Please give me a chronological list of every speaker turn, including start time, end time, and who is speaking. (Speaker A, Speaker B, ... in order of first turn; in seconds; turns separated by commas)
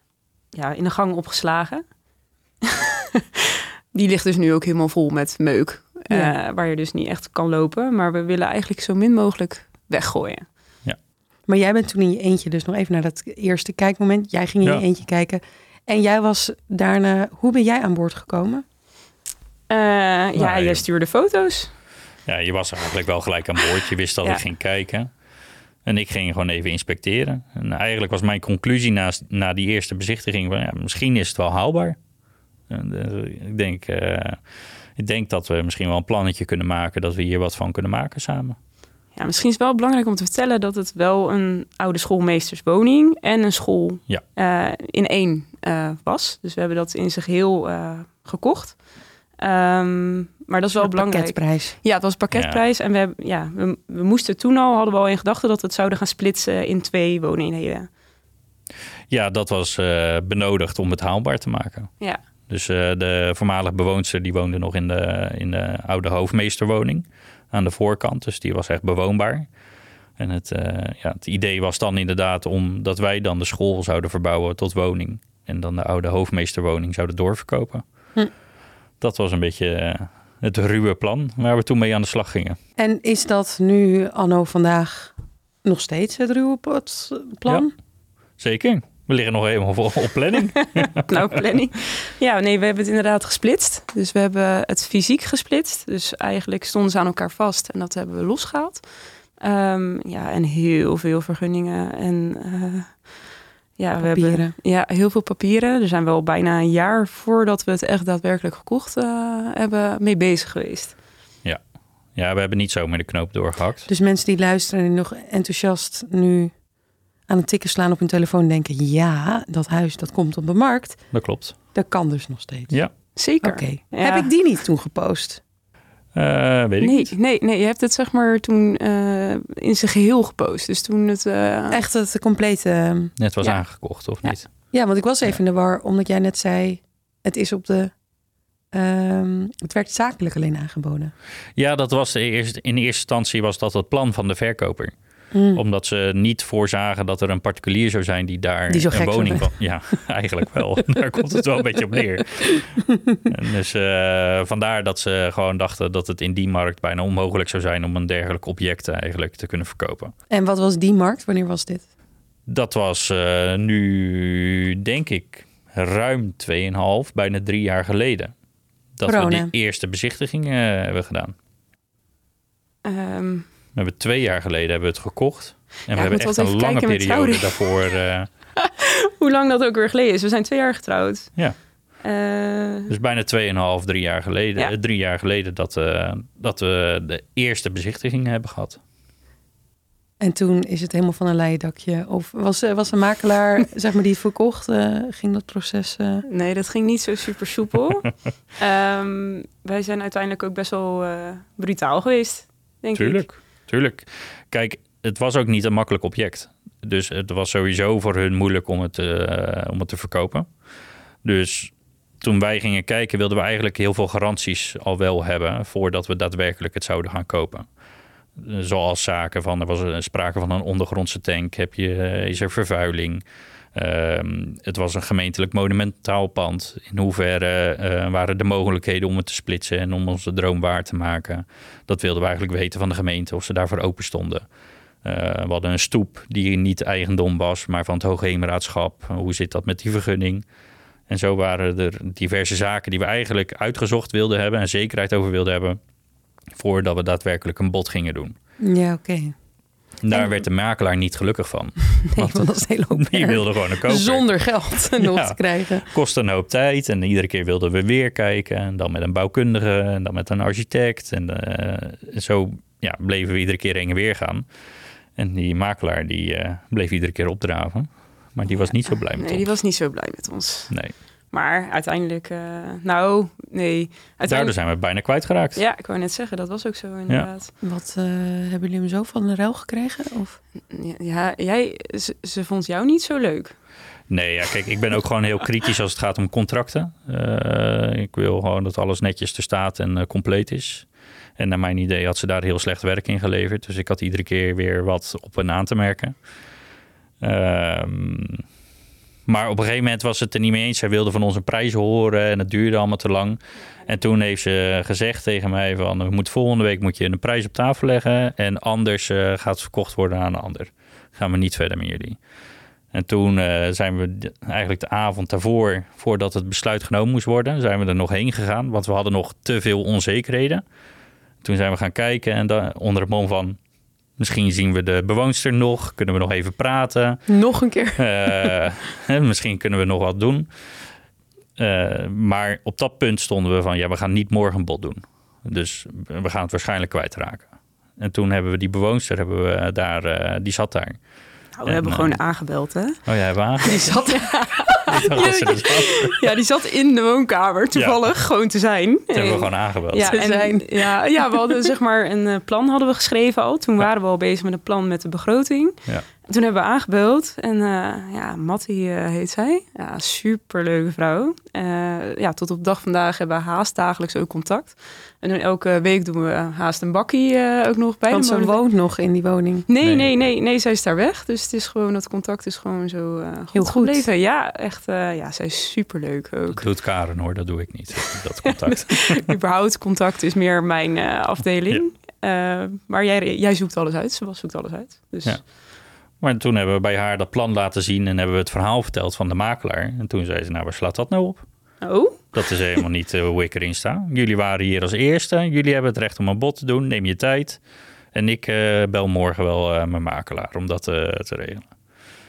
Speaker A: 0.5-1.8, Speaker A: 2.6-10.5, Speaker B: 11.5-18.6, Speaker A: 19.7-21.7, Speaker C: 20.4-20.8, Speaker C: 22.3-25.1, Speaker C: 25.9-32.0, Speaker C: 32.7-34.4, Speaker C: 35.0-38.6, Speaker A: 39.2-48.8, Speaker A: 49.4-57.9, Speaker B: 50.8-51.8, Speaker C: 52.3-52.6, Speaker C: 59.1-61.9, Speaker C: 62.5-69.5, Speaker C: 70.2-77.8, Speaker C: 79.0-82.6, Speaker B: 82.8-85.1, Speaker B: 85.6-87.7, Speaker C: 88.4-91.2, Speaker A: 90.5-98.8, Speaker A: 99.4-103.0, Speaker A: 103.8-111.0, Speaker B: 104.0-104.5, Speaker C: 112.1-113.9, Speaker B: 113.9-116.5, Speaker B: 117.3-121.0, Speaker C: 121.1-121.6, Speaker B: 121.7-122.7, Speaker A: 123.2-124.3, Speaker B: 123.4-125.4, Speaker C: 126.1-127.1, Speaker A: 126.8-131.8, Speaker B: 131.7-133.1, Speaker C: 133.2-134.4, Speaker B: 134.7-137.9, Speaker B: 138.7-141.1, Speaker C: 141.6-144.9, Speaker B: 145.3-145.6, Speaker C: 145.5-152.7, Speaker B: 148.7-149.5, Speaker B: 152.9-153.2, Speaker C: 153.3-160.1, Speaker B: 160.3-161.8, Speaker C: 162.5-168.3, Speaker C: 169.0-171.3, Speaker B: 169.1-169.5, Speaker A: 172.8-173.4, Speaker C: 173.7-178.3, Speaker A: 175.9-177.7, Speaker A: 178.6-181.3, Speaker A: 182.0-182.9, Speaker C: 182.9-188.8, Speaker B: 190.2-196.2, Speaker A: 196.2-203.2, Speaker C: 202.9-210.5, Speaker C: 211.2-217.7, Speaker C: 218.4-223.2, Speaker C: 223.7-234.4, Speaker C: 235.0-240.4, Speaker C: 241.1-245.8, Speaker C: 246.6-248.3, Speaker B: 248.6-249.3, Speaker C: 250.0-254.3, Speaker B: 250.1-250.4, Speaker B: 252.1-255.8, Speaker C: 254.9-264.5, Speaker C: 265.2-269.5, Speaker A: 268.5-270.7, Speaker A: 271.3-274.5, Speaker C: 274.3-275.6, Speaker A: 275.6-277.5, Speaker B: 277.6-280.4, Speaker A: 280.7-283.5, Speaker C: 284.1-290.9, Speaker C: 291.4-296.1, Speaker C: 297.2-298.4, Speaker C: 299.3-312.2, Speaker C: 312.9-320.6, Speaker C: 321.4-323.6, Speaker C: 324.2-327.2, Speaker B: 327.3-328.6, Speaker C: 328.0-330.5, Speaker C: 331.6-341.0, Speaker A: 341.6-343.0, Speaker C: 341.6-342.2, Speaker C: 343.1-343.9, Speaker B: 343.6-344.9, Speaker A: 343.7-368.6, Speaker C: 344.9-346.3, Speaker C: 349.1-350.2, Speaker B: 350.0-351.6, Speaker B: 368.1-369.7, Speaker A: 369.7-376.6, Speaker C: 369.8-370.1, Speaker B: 373.6-374.1, Speaker C: 376.5-379.3, Speaker A: 378.4-385.4, Speaker C: 386.2-391.4, Speaker A: 391.8-392.3, Speaker C: 392.3-397.6, Speaker C: 398.1-401.7